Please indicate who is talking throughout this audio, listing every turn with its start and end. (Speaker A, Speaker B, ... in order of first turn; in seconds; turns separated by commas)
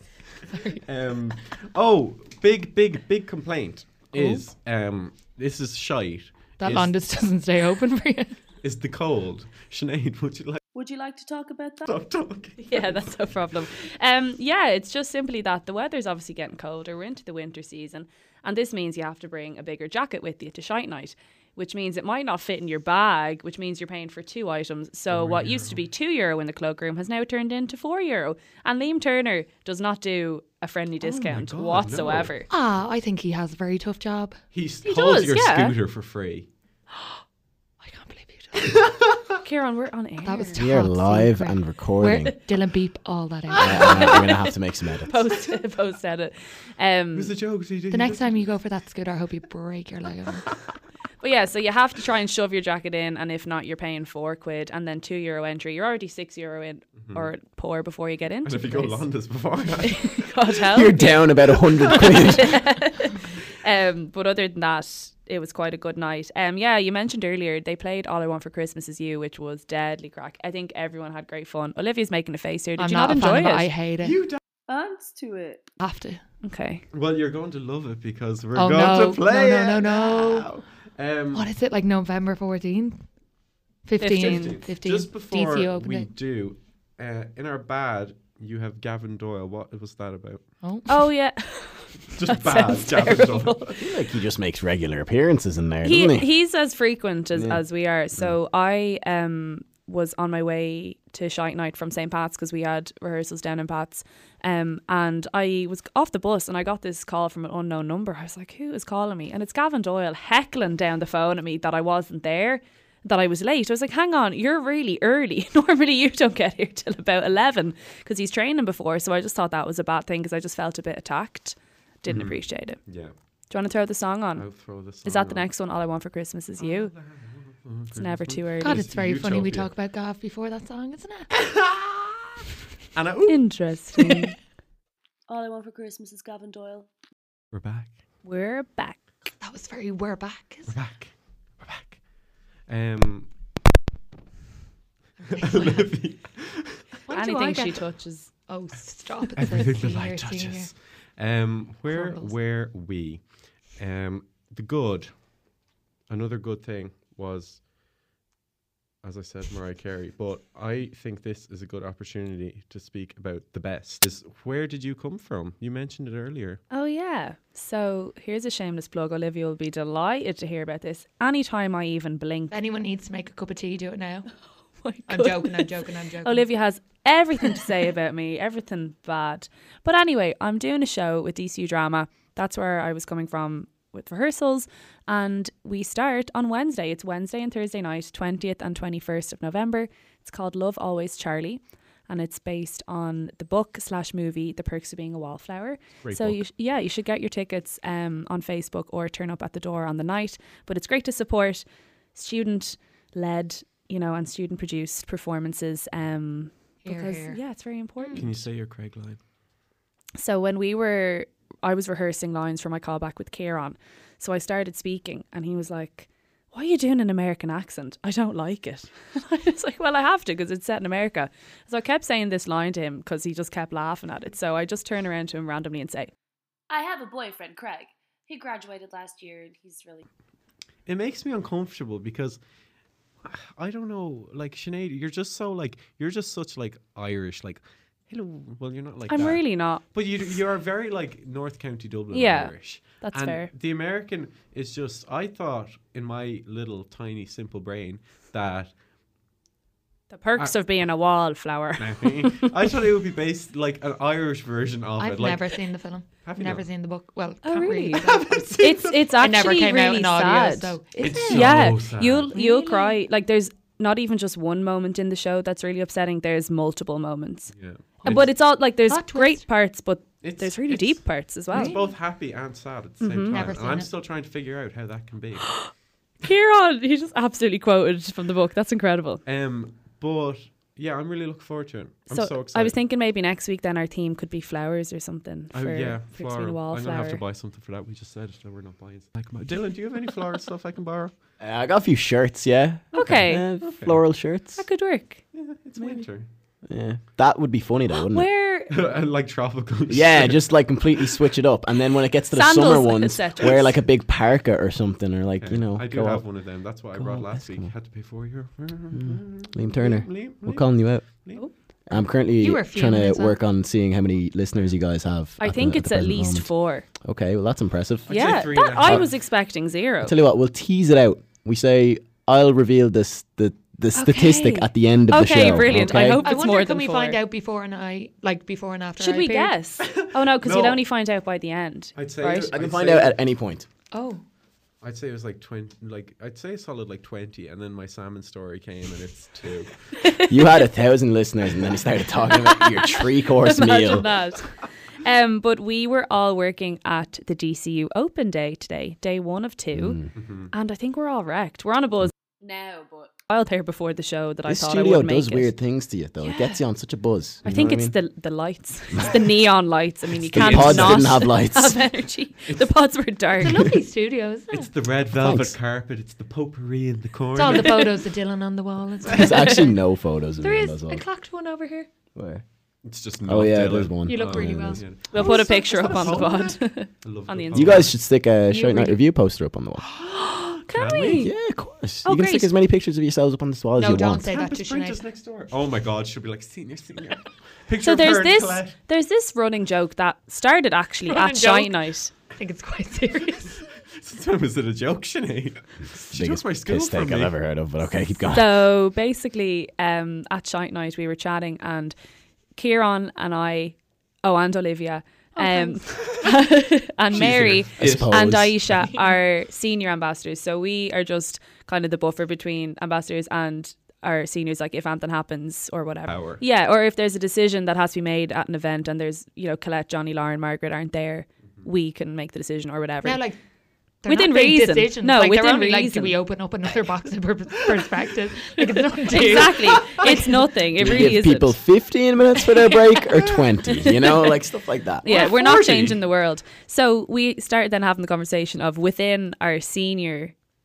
Speaker A: 0.5-0.8, Speaker B: 0.8-6.9, Speaker A: 6.6-8.4, Speaker B: 8.6-10.6, Speaker C: 10.7-11.9, Speaker B: 11.8-13.2, Speaker D: 12.6-32.5, Speaker B: 25.1-25.8, Speaker B: 31.0-32.3, Speaker A: 32.5-34.4, Speaker B: 34.5-36.5, Speaker D: 34.9-35.8, Speaker A: 37.8-38.8, Speaker B: 38.6-39.2, Speaker D: 39.4-40.7, Speaker A: 40.2-44.3, Speaker E: 40.6-42.3, Speaker E: 43.6-45.2, Speaker D: 43.6-44.5, Speaker D: 45.1-47.3, Speaker B: 47.1-48.5, Speaker A: 47.9-50.5, Speaker D: 51.2-59.0, Speaker B: 58.5-60.2, Speaker D: 59.8-73.7, Speaker E: 60.7-62.6, Speaker A: 72.8-74.2, Speaker B: 74.0-74.4, Speaker C: 74.7-75.7, Speaker A: 75.8-76.2, Speaker D: 76.4-76.8, Speaker B: 76.9-81.5, Speaker A: 78.5-80.5, Speaker A: 81.3-83.0, Speaker A: 83.8-86.1, Speaker D: 84.0-84.6, Speaker B: 84.1-90.4, Speaker D: 90.9-93.7, Speaker B: 92.1-93.8, Speaker E: 93.8-96.3, Speaker D: 95.8-122.8, Speaker E: 97.3-97.6, Speaker B: 122.1-123.1, Speaker D: 123.5-124.5, Speaker B: 124.4-125.5, Speaker D: 125.0-126.9, Speaker B: 126.6-129.7, Speaker D: 128.0-128.8, Speaker A: 128.6-131.3, Speaker B: 131.4-134.2, Speaker D: 133.3-134.3, Speaker C: 135.3-136.9, Speaker B: 137.5-137.9, Speaker D: 138.2-139.0, Speaker A: 139.4-140.7, Speaker B: 140.7-142.0, Speaker B: 142.7-143.3, Speaker A: 145.2-145.9, Speaker B: 145.3-147.0, Speaker A: 147.1-147.9, Speaker D: 147.1-148.3, Speaker A: 148.5-150.7, Speaker B: 149.3-155.3, Speaker A: 151.9-152.3, Speaker B: 156.1-157.6, Speaker B: 159.0-166.6, Speaker D: 166.7-172.5, Speaker A: 172.5-174.3, Speaker D: 174.8-201.6, Speaker A: 175.1-176.5, Speaker B: 196.0-196.4, Speaker D: 202.2-208.3, Speaker A: 206.8-207.4, Speaker B: 208.1-209.2, Speaker D: 210.2-226.1, Speaker C: 226.7-230.1, Speaker B: 230.9-232.4, Speaker B: 233.2-248.7, Speaker D: 239.1-239.8, Speaker D: 242.1-243.5, Speaker D: 250.1-252.5, Speaker B: 251.8-256.7, Speaker A: 255.0-261.6, Speaker D: 257.4-271.8, Speaker B: 258.0-259.1, Speaker B: 261.0-262.3, Speaker A: 262.3-263.0, Speaker B: 267.5-268.3, Speaker A: 268.0-268.3, Speaker A: 268.9-269.4, Speaker B: 270.2-275.7, Speaker A: 271.5-271.9, Speaker D: 273.0-273.4, Speaker A: 273.3-273.9, Speaker D: 275.5-279.2, Speaker B: 279.2-282.8, Speaker D: 282.1-287.2, Speaker B: 285.5-291.1, Speaker E: 291.4-294.6, Speaker D: 292.9-293.6, Speaker B: 293.0-294.0, Speaker D: 294.6-295.2, Speaker B: 295.3-296.3, Speaker E: 296.6-298.3, Speaker D: 298.0-298.7, Speaker B: 298.7-300.5, Speaker E: 299.9-306.2, Speaker D: 302.3-303.8, Speaker B: 305.4-311.4, Speaker E: 306.9-307.7, Speaker E: 308.9-311.1, Speaker E: 311.9-319.0, Speaker A: 312.4-313.4, Speaker D: 315.4-316.9, Speaker B: 318.1-319.1, Speaker D: 318.1-320.1, Speaker E: 320.0-326.2, Speaker D: 323.9-327.2, Speaker A: 325.7-329.5, Speaker D: 329.0-332.5, Speaker B: 329.8-330.8, Speaker B: 332.0-333.2, Speaker E: 332.5-333.7, Speaker A: 333.9-334.2, Speaker B: 334.8-340.0, Speaker D: 340.0-340.5, Speaker E: 340.3-344.1, Speaker D: 342.3-352.2, Speaker E: 349.8-350.1, Speaker B: 350.2-350.5, Speaker C: 352.4-353.2, Speaker D: 353.3-355.5, Speaker E: 354.5-358.0, Speaker D: 356.2-356.6, Speaker D: 357.4-363.7, Speaker B: 360.2-361.2, Speaker E: 360.3-361.8, Speaker B: 362.5-362.7, Speaker A: 363.4-364.7, Speaker B: 364.5-368.0, Speaker E: 365.2-365.6, Speaker A: 367.4-369.8, Speaker E: 369.1-371.0, Speaker A: 370.4-371.9, Speaker E: 372.1-372.4, Speaker B: 372.9-377.9, Speaker E: 373.3-374.8, Speaker A: 374.1-376.3, Speaker D: 375.1-377.9, Speaker E: 377.5-379.8, Speaker A: 378.5-379.0, Speaker D: 380.0-381.3, Speaker B: 380.6-381.3, Speaker E: 381.2-384.3, Speaker D: 382.1-382.5, Speaker A: 383.8-385.0, Speaker B: 384.3-388.8, Speaker D: 387.8-392.1, Speaker A: 391.1-391.8, Speaker A: 392.3-393.6, Speaker B: 393.8-397.4, Speaker E: 396.1-398.6, Speaker D: 398.3-401.9, Speaker D: 402.6-423.2, Speaker A: 405.4-405.7, Speaker B: 405.8-406.3, Speaker B: 407.1-408.7, Speaker E: 407.1-408.7, Speaker B: 416.1-416.4, Speaker A: 423.0-423.4, Speaker A: 424.0-430.6, Speaker D: 424.1-426.2, Speaker D: 429.1-431.6, Speaker E: 430.8-435.1, Speaker D: 435.0-440.4, Speaker B: 435.1-436.0